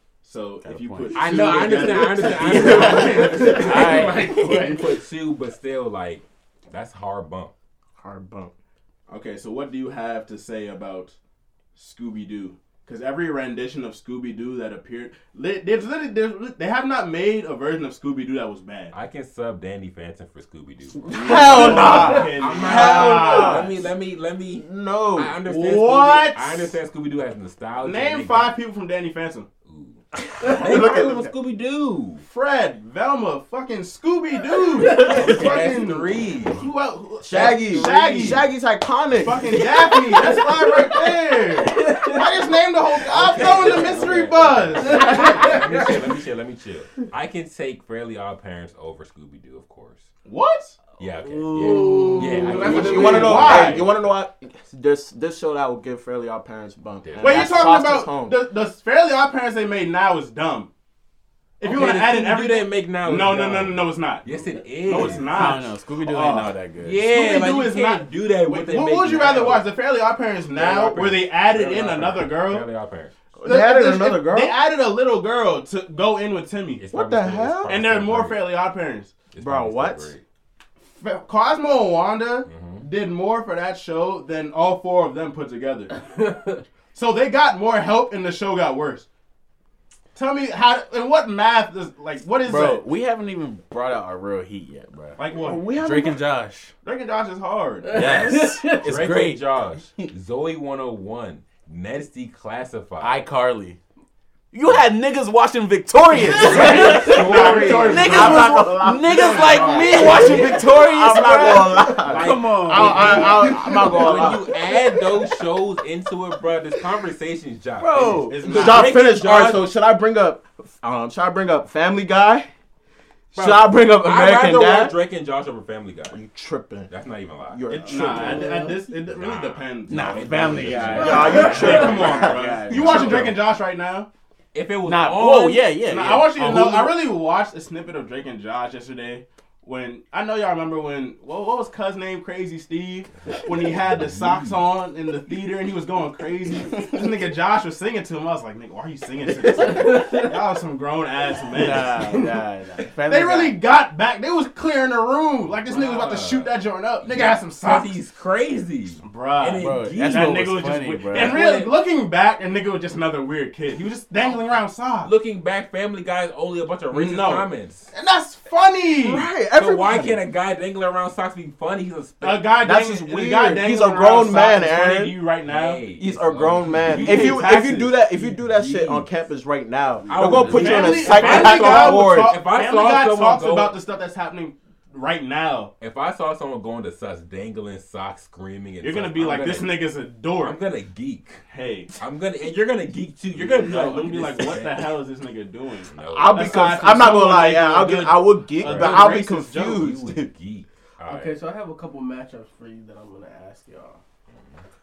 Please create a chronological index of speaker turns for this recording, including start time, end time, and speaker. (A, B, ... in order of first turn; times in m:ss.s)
0:00.2-0:04.0 A
0:00.6-0:01.9 B
0:01.1-0:07.5 C
0:02.4-0:03.5 D
0:02.5-0:04.8 B
0:08.0-0:08.5 D
0:09.1-0:11.2 A
0:11.7-0:18.9 A
0:18.9-0:28.6 C
0:21.0-0:23.8 D
0:21.2-0:23.8 A
0:24.5-0:25.4 D
0:25.4-0:26.8 A
0:27.8-0:29.5 A
0:29.6-0:32.2 C
0:30.3-0:31.3 D
0:32.2-0:38.5 A
0:34.8-0:36.7 C
0:37.2-0:41.3 D
0:37.3-0:38.4 C
0:39.1-0:45.6 A
0:41.7-0:42.2 E
0:43.0-0:50.1 C
0:45.1-0:45.7 E
0:50.2-0:50.8 A
0:51.0-0:54.0 C
0:51.3-0:53.5 E
0:51.6-0:58.4 D
0:52.5-0:53.9 A
0:57.0-0:57.7 C
0:57.2-1:00.7 A
1:01.6-1:06.5 A
1:01.6-1:05.6 C
1:04.9-1:07.0 B
1:06.8-1:09.7 C
1:07.0-1:12.6 A
1:10.6-1:13.1 C
1:13.4-1:14.6 D
1:13.4-1:16.8 A
1:16.8-1:18.5 C
1:16.9-1:17.8 D
1:17.7-1:19.2 A
1:19.3-1:20.2 C
1:19.4-1:20.1 D
1:21.0-1:26.0 A
1:22.5-1:22.8 C
1:26.1-1:26.6 E
1:26.9-1:29.1 A
1:30.1-1:32.8 A
1:32.4-1:36.7 B
1:35.2-1:35.6 A
1:35.3-1:36.2 D
1:36.8-1:38.2 A
1:37.9-1:40.1 B
1:37.9-1:38.8 E
1:37.9-1:43.2 C
1:43.0-1:43.8 B
1:44.5-1:53.7 B
1:46.3-1:48.5 C
1:46.3-1:48.5 A
1:47.9-1:54.7 D
1:49.2-1:50.5 A
1:49.6-1:50.4 C
1:52.0-1:59.7 C
1:57.8-1:58.5 B
1:58.3-1:59.1 A
1:58.4-2:02.5 D
2:03.3-2:04.9 D
2:03.4-2:06.2 C
2:06.1-2:06.9 D
2:06.9-2:08.0 C
2:07.5-2:08.5 D
2:07.7-2:14.1 A
2:08.2-2:08.8 E
2:09.1-2:13.3 C
2:09.9-2:13.4 B
2:10.9-2:13.3 D
2:14.5-2:15.7 C
2:14.8-2:16.9 B
2:15.8-2:32.4 A
2:23.3-2:24.6 C
2:29.7-2:30.3 E
2:31.5-2:33.6 B
2:33.0-2:37.9 A
2:35.7-2:41.7 C
2:39.0-2:45.1 A
2:39.6-2:41.4 B
2:45.0-2:47.9 C
2:46.9-2:49.3 A
2:49.0-2:50.2 D
2:49.4-2:52.5 C
2:52.2-2:55.9 A
2:52.6-2:55.2 D
2:55.4-2:59.1 C
2:55.9-3:02.4 D
2:56.9-2:57.8 A
3:00.1-3:03.8 C
3:00.1-3:01.3 B
3:00.4-3:05.7 A
3:05.8-3:09.8 C
3:08.8-3:10.6 A
3:10.4-3:11.4 C
3:11.5-3:11.9 A
3:11.9-3:15.0 C
3:13.3-3:19.8 A
3:15.9-3:16.7 C
3:16.1-3:20.3 D
3:18.6-3:21.4 C
3:21.0-3:24.0 E
3:24.3-3:24.6 C